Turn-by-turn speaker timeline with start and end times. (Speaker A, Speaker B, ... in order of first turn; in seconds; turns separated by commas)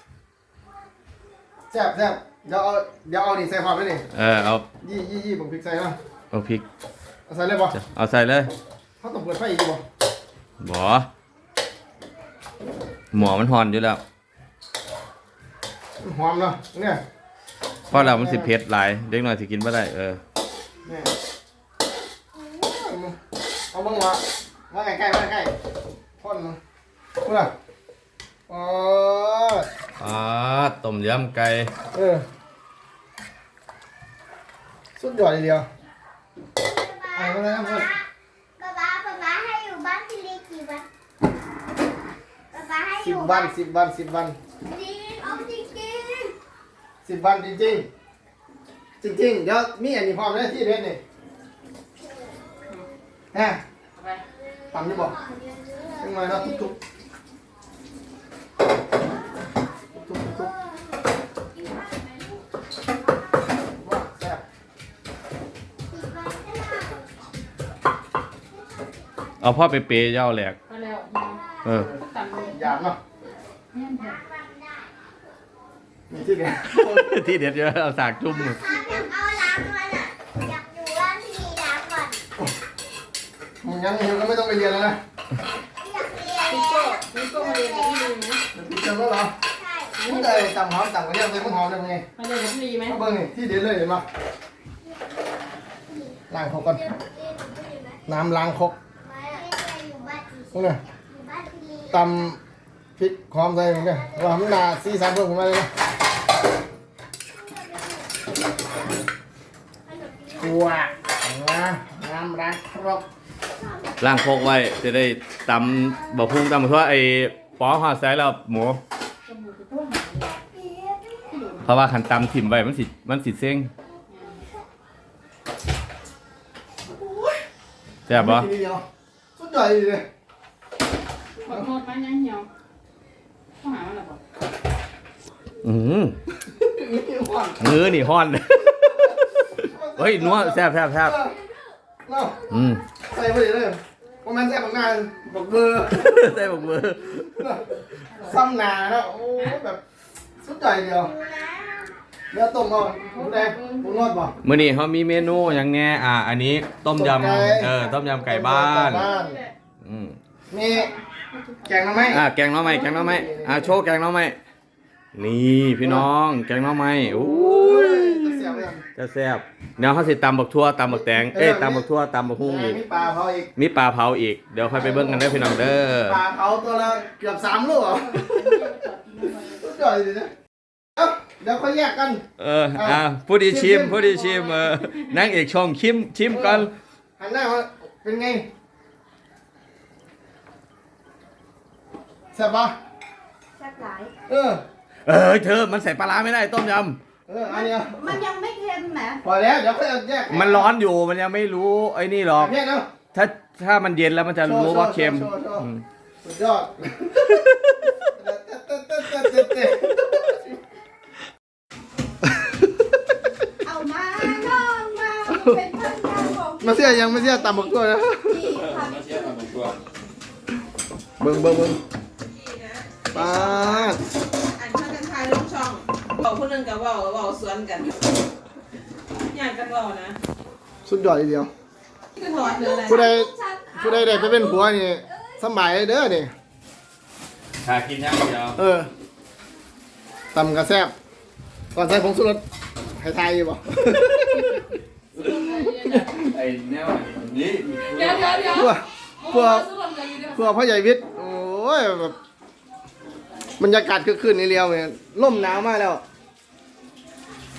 Speaker A: 1.7-4.0, Speaker B: 4.1-4.7, Speaker A: 4.8-6.0, Speaker B: 6.3-6.6, Speaker A: 7.3-7.8, Speaker B: 7.7-8.5, Speaker A: 9.0-9.8, Speaker B: 10.6-11.1, Speaker B: 13.1-14.0, Speaker A: 16.0-17.0, Speaker B: 17.9-20.2, Speaker A: 17.9-18.5, Speaker A: 20.9-21.1, Speaker A: 22.5-23.2, Speaker A: 23.7-25.6, Speaker A: 26.2-26.6, Speaker A: 27.2-27.5, Speaker A: 28.5-29.7, Speaker B: 30.0-31.7, Speaker A: 31.9-32.2, Speaker A: 35.0-35.7, Speaker C: 36.6-38.1, Speaker A: 37.1-37.9, Speaker C: 38.6-40.9, Speaker C: 42.5-43.5, Speaker A: 43.0-44.4, Speaker C: 44.7-46.3, Speaker D: 45.2-45.5, Speaker A: 47.0-47.9, Speaker A: 49.0-51.0, Speaker A: 53.3-53.6, Speaker E: 54.0-54.2, Speaker C: 54.5-56.7, Speaker A: 54.7-55.1, Speaker A: 56.0-56.8, Speaker A: 60.0-60.5, Speaker A: 63.8-64.4, Speaker C: 65.9-67.1, Speaker B: 69.4-70.6, Speaker E: 70.7-71.4, Speaker A: 71.7-73.0, Speaker E: 72.0-72.8, Speaker E: 73.7-74.2, Speaker C: 74.0-74.9, Speaker A: 76.1-77.2, Speaker B: 76.7-78.6, Speaker C: 78.4-82.2, Speaker A: 83.6-85.0, Speaker C: 85.8-88.1, Speaker E: 86.5-88.4, Speaker A: 88.5-89.4, Speaker C: 89.4-90.1, Speaker E: 90.0-90.5, Speaker A: 90.0-92.1, Speaker E: 92.2-93.0, Speaker A: 92.9-94.0, Speaker C: 95.9-98.0, Speaker A: 96.3-96.8, Speaker A: 98.1-98.8, Speaker C: 99.0-102.3, Speaker A: 100.5-100.8, Speaker A: 101.9-102.4, Speaker A: 103.0-105.7, Speaker C: 103.8-104.6, Speaker C: 107.5-108.8, Speaker C: 109.9-110.9, Speaker A: 110.4-113.1, Speaker B: 114.0-118.8, Speaker E: 119.3-120.3, Speaker C: 120.6-121.2, Speaker E: 121.3-121.6, Speaker B: 121.7-123.7, Speaker E: 124.1-124.4, Speaker A: 127.0-127.3, Speaker B: 128.1-128.5, Speaker A: 128.1-128.8, Speaker A: 129.4-130.1, Speaker E: 131.4-132.5, Speaker E: 133.6-134.2, Speaker B: 135.6-136.2, Speaker A: 136.4-137.8, Speaker B: 137.6-139.2, Speaker A: 138.8-141.4, Speaker B: 140.0-141.2, Speaker A: 142.1-142.4, Speaker B: 142.5-142.8, Speaker A: 143.1-146.6, Speaker B: 145.9-147.3, Speaker A: 147.2-149.8, Speaker A: 150.4-151.1, Speaker C: 151.2-151.8, Speaker A: 152.3-154.3, Speaker E: 152.9-154.3, Speaker B: 154.4-159.1, Speaker A: 156.9-159.4, Speaker E: 158.9-159.5, Speaker B: 159.8-160.2, Speaker A: 160.5-160.9, Speaker E: 160.7-161.8, Speaker A: 161.7-163.8, Speaker B: 162.1-164.4, Speaker B: 165.2-172.8, Speaker A: 165.8-166.1, Speaker A: 167.0-168.8, Speaker A: 171.2-171.9, Speaker A: 172.4-173.5, Speaker B: 173.6-176.2, Speaker A: 174.6-178.7, Speaker E: 177.7-179.8, Speaker A: 179.6-180.3, Speaker A: 181.0-182.2, Speaker B: 182.4-186.7, Speaker A: 182.8-184.1, Speaker A: 186.3-188.5, Speaker A: 192.3-192.8, Speaker D: 193.6-194.1, Speaker A: 194.3-194.6, Speaker B: 195.1-197.0, Speaker A: 197.3-198.2, Speaker D: 197.5-199.2, Speaker A: 199.2-200.7, Speaker B: 200.3-202.5, Speaker A: 202.3-202.9, Speaker B: 203.1-205.8, Speaker A: 204.4-205.7, Speaker A: 206.2-207.4, Speaker A: 208.1-210.6, Speaker D: 213.6-219.4, Speaker A: 215.3-215.6, Speaker A: 216.6-218.6, Speaker B: 218.5-219.8, Speaker A: 221.2-221.8, Speaker F: 222.2-228.0, Speaker A: 223.1-224.0, Speaker F: 229.3-230.2, Speaker A: 230.8-231.5, Speaker F: 232.2-233.1, Speaker D: 232.3-235.4, Speaker A: 232.8-236.3, Speaker B: 237.6-238.6, Speaker A: 238.6-238.9, Speaker A: 240.3-240.9, Speaker A: 241.7-242.4, Speaker A: 243.0-244.7, Speaker E: 245.1-246.2, Speaker B: 246.1-248.7, Speaker E: 248.0-248.6, Speaker A: 248.4-249.7, Speaker E: 249.2-250.3, Speaker A: 250.3-252.2, Speaker A: 253.6-256.0